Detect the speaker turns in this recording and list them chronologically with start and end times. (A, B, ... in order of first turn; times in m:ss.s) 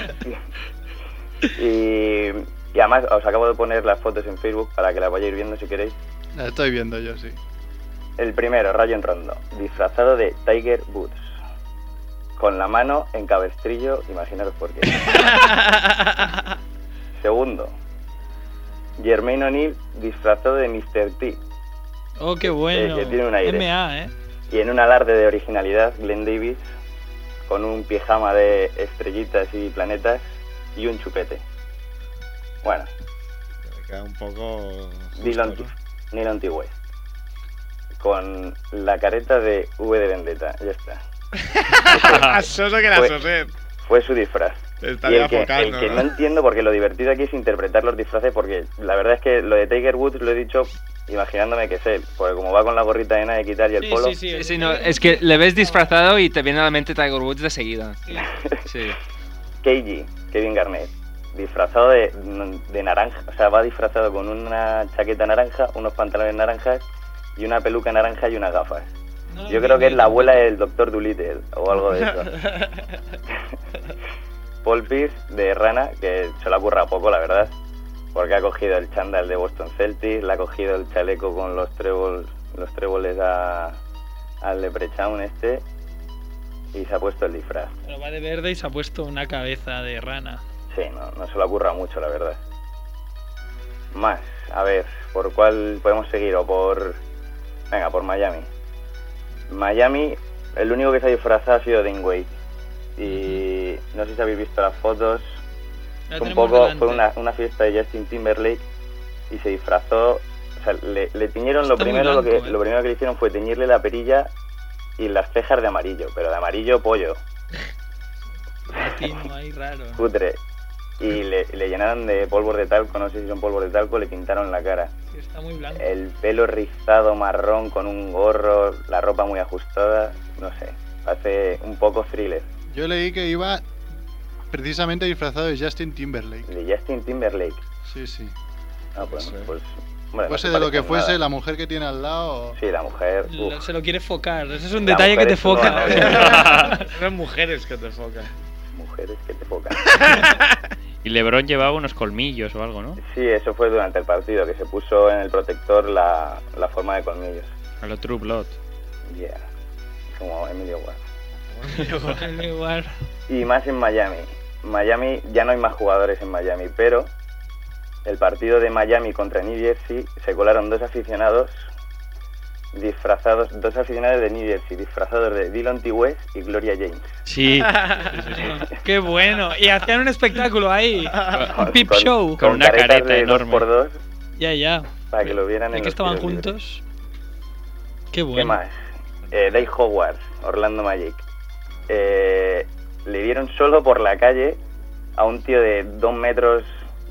0:01.5-0:05.9 A
0:06.3-0:07.4 B
0:08.2-0:11.4 A
0:12.4-0:15.1 A
0:15.2-0:15.8 C
0:17.2-0:17.7 A
0:19.0-0:21.4 A
0:22.2-0:24.1 D
0:22.7-0:23.7 A
0:24.5-0:26.6 A
0:27.5-0:30.2 A
0:30.8-0:31.4 A
0:32.6-0:32.9 A
0:33.6-0:35.7 C
0:35.2-0:36.7 A
0:38.0-0:41.0 A
0:41.4-0:43.5 C
0:41.9-0:42.2 A
0:42.0-0:42.4 E
0:42.9-0:43.2 A
0:43.8-0:54.2 A
0:44.8-0:46.1 C
0:53.8-0:55.7 D
0:54.3-0:59.0 F
0:59.6-1:06.8 A
1:07.4-1:08.9 A
1:09.3-1:10.4 D
1:09.5-1:12.3 A
1:11.8-1:12.8 C
1:14.6-1:17.5 A
1:18.1-1:23.8 A
1:24.4-1:25.6 A
1:26.7-1:27.7 A
1:27.8-1:30.4 D
1:30.7-1:32.4 A
1:33.9-1:37.0 A
1:37.7-1:38.5 A
1:39.5-1:42.3 A
1:43.0-1:45.4 A
1:46.1-1:47.0 D
1:46.2-1:48.6 A
1:49.3-1:54.3 A
1:51.6-1:52.6 D
1:55.0-1:57.2 A
1:58.7-2:00.0 D
2:00.0-2:00.4 A
2:01.0-2:04.9 A
2:05.1-2:05.9 D
2:05.7-2:12.5 A
2:12.7-2:13.6 B
2:14.5-2:16.5 B
2:16.5-2:17.6 A
2:17.8-2:18.3 B
2:19.0-2:21.2 A
2:19.0-2:19.5 C
2:20.3-2:22.6 B
2:22.6-2:23.6 A
2:23.3-2:26.9 D
2:24.8-2:26.3 A
2:25.6-2:28.3 C
2:26.2-2:26.8 E
2:28.7-2:29.9 A
2:29.9-2:30.6 C
2:31.0-2:33.0 E
2:33.0-2:37.5 A
2:37.8-2:38.5 E
2:39.1-2:39.4 A
2:40.1-2:41.0 A
2:41.5-2:42.3 C
2:42.1-2:42.9 D
2:43.3-2:47.1 A
2:48.0-2:51.5 A
2:52.7-2:57.1 A
2:57.3-2:58.6 E
2:57.6-2:58.2 C
2:58.4-3:02.4 D
3:01.4-3:04.0 A
3:02.4-3:03.6 E
3:04.4-3:06.8 D
3:05.1-3:06.5 A
3:08.1-3:08.6 D
3:08.3-3:08.7 A
3:09.3-3:09.6 C
3:09.3-3:11.2 A
3:11.9-3:14.6 A
3:15.2-3:16.7 A